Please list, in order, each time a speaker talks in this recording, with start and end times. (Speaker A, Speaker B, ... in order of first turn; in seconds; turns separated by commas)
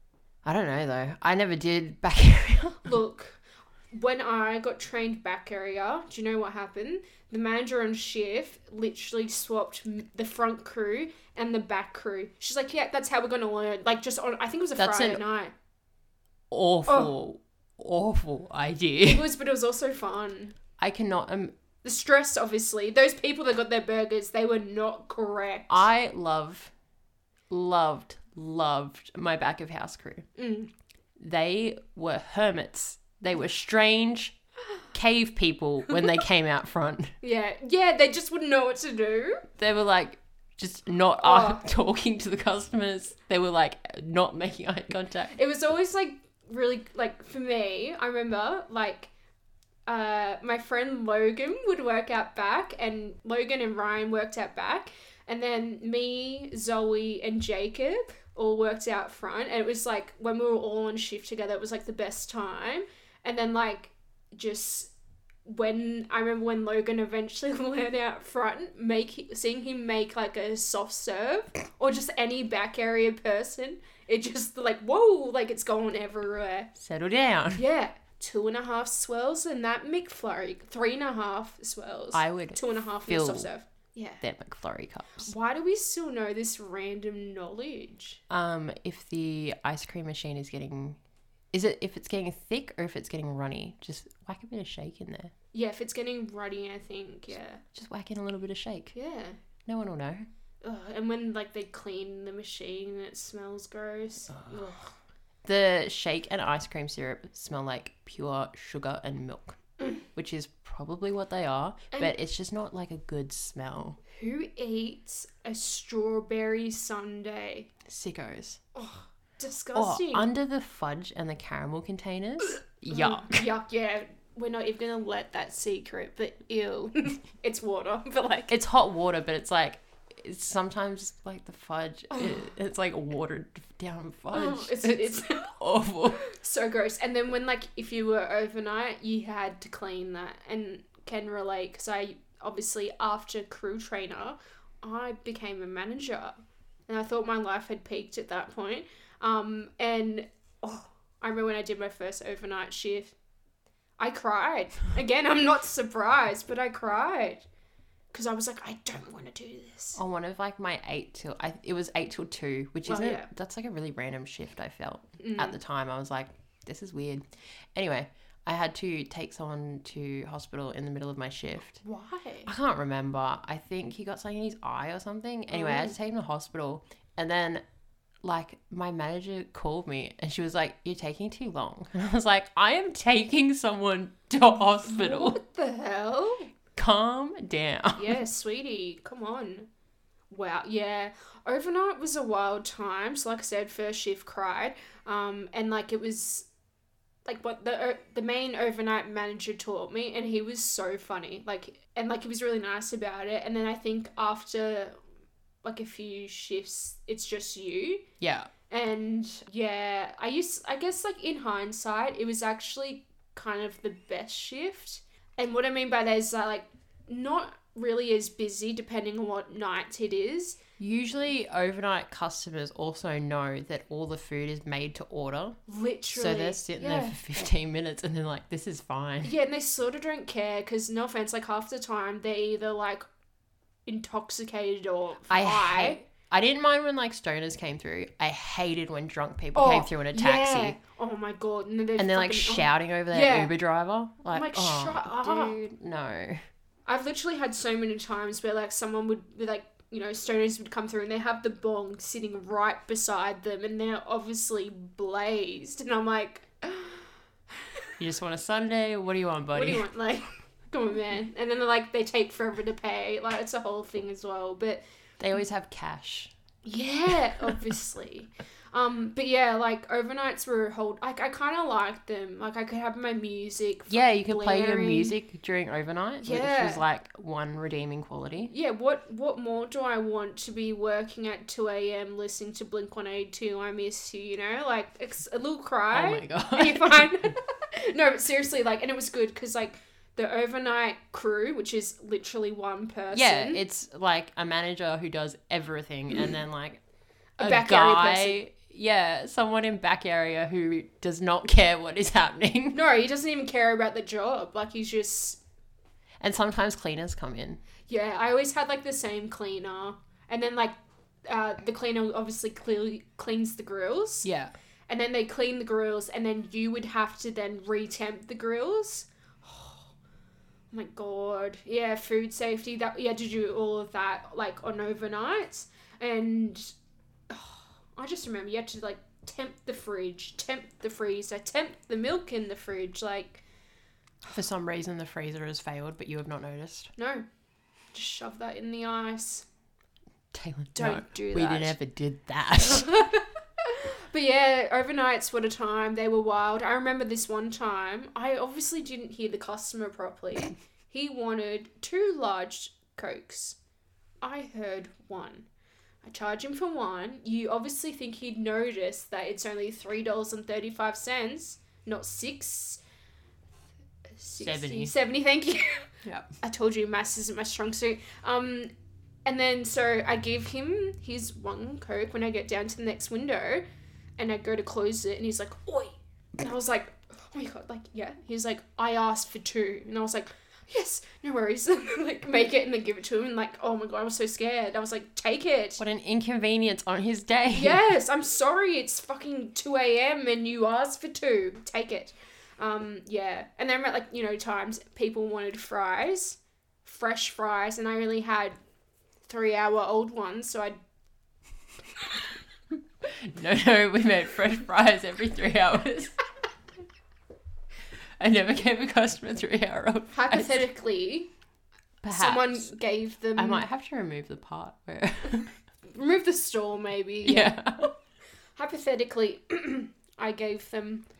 Speaker A: 0.4-2.9, Speaker B: 2.9-15.5, Speaker A: 14.8-15.2, Speaker A: 16.5-19.3, Speaker B: 16.9-17.1, Speaker B: 19.0-20.6, Speaker A: 20.8-21.5, Speaker B: 21.8-25.9, Speaker A: 25.7-26.7, Speaker A: 27.5-30.3, Speaker B: 30.4-30.7, Speaker A: 31.2-34.4, Speaker A: 34.9-37.1, Speaker B: 37.2-39.5, Speaker A: 39.6-45.4, Speaker B: 41.2-41.6, Speaker B: 45.3-49.1, Speaker B: 49.9-64.9, Speaker B: 65.5-76.7, Speaker A: 76.8-77.6, Speaker B: 77.5-84.2, Speaker A: 82.1-83.5, Speaker A: 84.2-85.3, Speaker B: 85.2-88.2, Speaker A: 88.3-91.0, Speaker A: 91.5-95.3, Speaker B: 95.5-97.6, Speaker A: 97.7-98.9, Speaker B: 98.9-99.4, Speaker A: 99.7-100.3, Speaker B: 100.6-104.9, Speaker A: 104.3-104.7, Speaker A: 105.4-114.0, Speaker B: 114.1-117.7, Speaker A: 117.8-118.6, Speaker B: 118.8-120.3, Speaker A: 119.8-123.5, Speaker B: 122.9-128.5, Speaker A: 128.5-136.2, Speaker B: 132.1-132.5, Speaker B: 134.3-135.6, Speaker B: 136.2-153.1, Speaker B: 154.0-157.4, Speaker B: 158.1-160.0, Speaker A: 160.0-167.2, Speaker B: 162.9-163.3, Speaker B: 165.2-165.6, Speaker A: 167.8-171.8, Speaker B: 171.8-172.5, Speaker A: 172.5-177.6, Speaker B: 175.5-175.9, Speaker A: 178.2-185.4, Speaker B: 184.8-186.5, Speaker A: 186.8-188.2, Speaker B: 188.0-189.7, Speaker B: 190.3-196.5, Speaker B: 197.3-205.0, Speaker B: 205.6-208.1, Speaker A: 208.2-208.5, Speaker B: 208.7-220.6, Speaker A: 220.8-225.6, Speaker B: 225.7-227.2, Speaker A: 226.1-229.3, Speaker B: 229.2-233.1, Speaker B: 233.9-236.0, Speaker A: 235.3-240.8, Speaker B: 239.6-243.5, Speaker A: 242.0-246.4, Speaker B: 244.3-245.6, Speaker B: 246.9-257.1, Speaker A: 258.0-259.9, Speaker B: 259.5-264.8, Speaker A: 265.2-266.3, Speaker B: 266.6-275.1, Speaker A: 273.9-278.5, Speaker B: 276.2-276.8, Speaker B: 278.5-293.6, Speaker A: 285.9-287.3, Speaker A: 293.1-296.8, Speaker B: 297.4-298.4, Speaker A: 297.4-302.8, Speaker B: 302.7-305.4, Speaker A: 306.2-307.6, Speaker B: 307.9-310.8, Speaker B: 311.3-314.3, Speaker A: 314.2-314.5, Speaker B: 314.9-319.9, Speaker B: 320.7-326.7, Speaker B: 327.3-333.4, Speaker A: 334.3-336.9, Speaker B: 337.0-337.2, Speaker B: 337.9-339.5, Speaker A: 340.3-343.0, Speaker B: 340.8-341.8, Speaker B: 342.6-353.6, Speaker B: 354.2-355.5, Speaker B: 356.0-362.8, Speaker B: 364.2-365.9, Speaker A: 364.4-364.9, Speaker B: 366.4-368.7, Speaker B: 369.3-373.6, Speaker B: 374.2-385.8, Speaker A: 385.8-387.9, Speaker B: 387.5-398.6, Speaker B: 399.3-400.8, Speaker A: 403.0-406.2, Speaker A: 408.2-410.6, Speaker B: 410.1-411.3, Speaker A: 412.0-412.7, Speaker B: 412.1-413.6, Speaker A: 413.4-415.5, Speaker B: 415.9-417.6, Speaker A: 417.2-417.9, Speaker B: 418.6-421.1